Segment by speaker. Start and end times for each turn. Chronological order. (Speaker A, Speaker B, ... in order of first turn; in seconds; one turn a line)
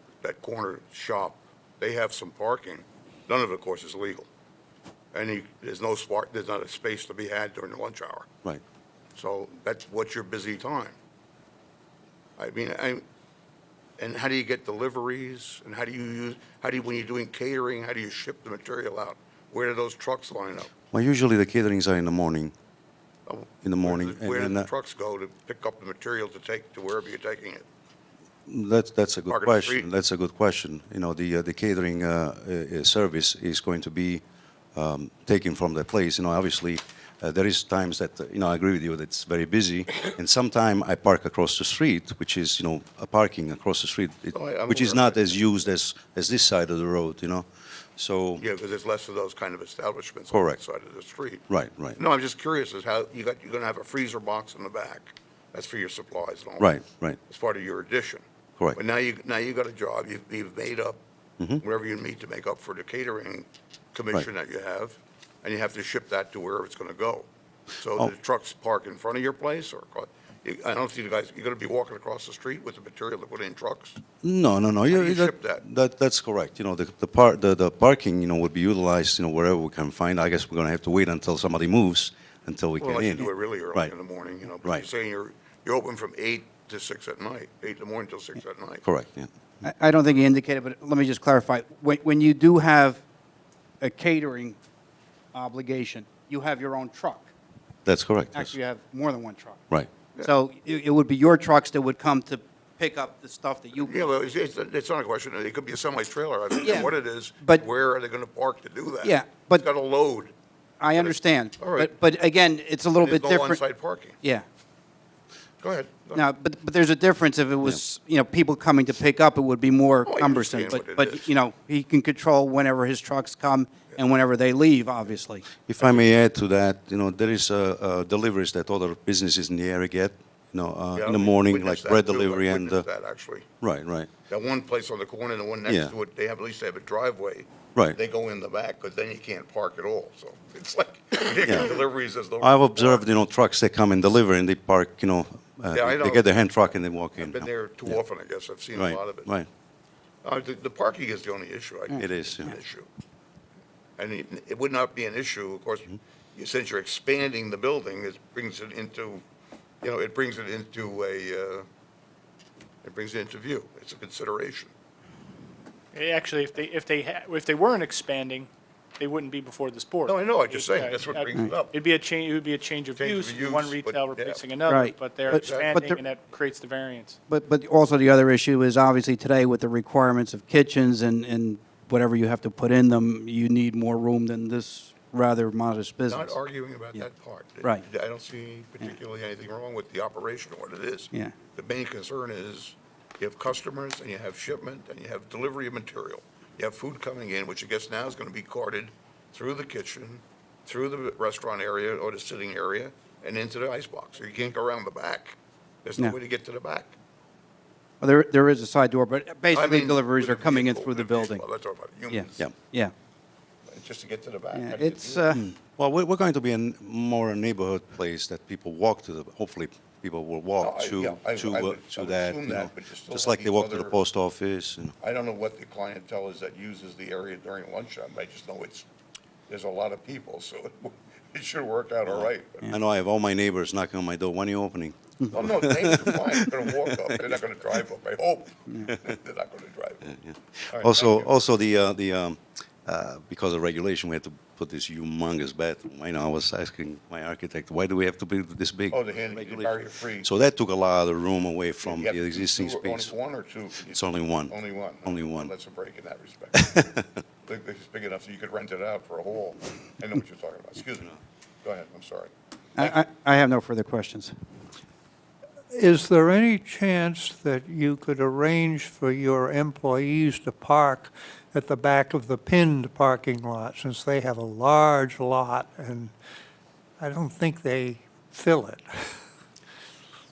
Speaker A: 0.2-4.3
Speaker A: 5.1-8.3
Speaker A: 9.2-11.0
Speaker A: 12.4-13.1
Speaker A: 14.0-20.7
Speaker B: 20.9-22.5
Speaker A: 23.3-27.6
Speaker B: 23.6-24.7
Speaker B: 28.5-34.2
Speaker A: 29.3-29.9
Speaker B: 34.8-48.4
Speaker A: 44.3-45.6
Speaker A: 48.4-51.5
Speaker B: 50.3-50.6
Speaker B: 51.5-52.0
Speaker A: 52.0-58.2
Speaker B: 56.6-57.2
Speaker A: 58.8-61.0
Speaker A: 61.6-67.3
Speaker A: 67.8-74.0
Speaker B: 74.2-83.9
Speaker A: 74.9-75.6
Speaker A: 82.8-88.8
Speaker B: 88.8-89.3
Speaker C: 89.6-93.0
Speaker C: 93.8-94.6
Speaker C: 95.3-97.3
Speaker B: 97.9-98.6
Speaker C: 98.3-104.1
Speaker A: 103.8-110.3
Speaker C: 106.6-107.7
Speaker C: 109.0-109.7
Speaker C: 110.8-113.6
Speaker A: 110.9-111.9
Speaker A: 113.0-114.2
Speaker C: 114.2-114.5
Speaker A: 115.6-116.2
Speaker C: 116.1-125.5
Speaker A: 120.1-121.3
Speaker B: 125.7-132.9
Speaker A: 125.8-126.2
Speaker A: 130.9-133.5
Speaker B: 133.6-134.1
Speaker A: 134.3-143.1
Speaker B: 135.7-135.9
Speaker B: 141.4-141.8
Speaker B: 142.4-148.0
Speaker A: 145.7-149.3
Speaker B: 148.8-149.5
Speaker A: 150.2-152.9
Speaker B: 152.0-152.6
Speaker A: 154.0-159.2
Speaker A: 159.8-161.7
Speaker A: 162.8-164.7
Speaker D: 165.9-177.2
Speaker A: 170.1-171.8
Speaker A: 173.0-174.4
Speaker C: 174.7-176.0
Speaker A: 175.3-175.8
Speaker C: 177.3-186.4
Speaker A: 186.1-207.0
Speaker C: 208.0-211.4
Speaker A: 209.5-212.5
Speaker C: 212.1-212.9
Speaker A: 213.7-215.3
Speaker C: 214.5-215.4
Speaker B: 215.3-224.9
Speaker A: 220.6-224.0
Speaker A: 225.0-228.9
Speaker A: 229.5-232.7
Speaker B: 232.1-237.3
Speaker A: 235.3-240.2
Speaker B: 240.2-253.1
Speaker A: 240.7-241.3
Speaker A: 248.9-250.3
Speaker A: 251.8-263.0
Speaker B: 253.9-255.5
Speaker B: 256.7-257.0
Speaker C: 262.8-264.3
Speaker E: 265.7-276.1
Speaker E: 277.0-278.9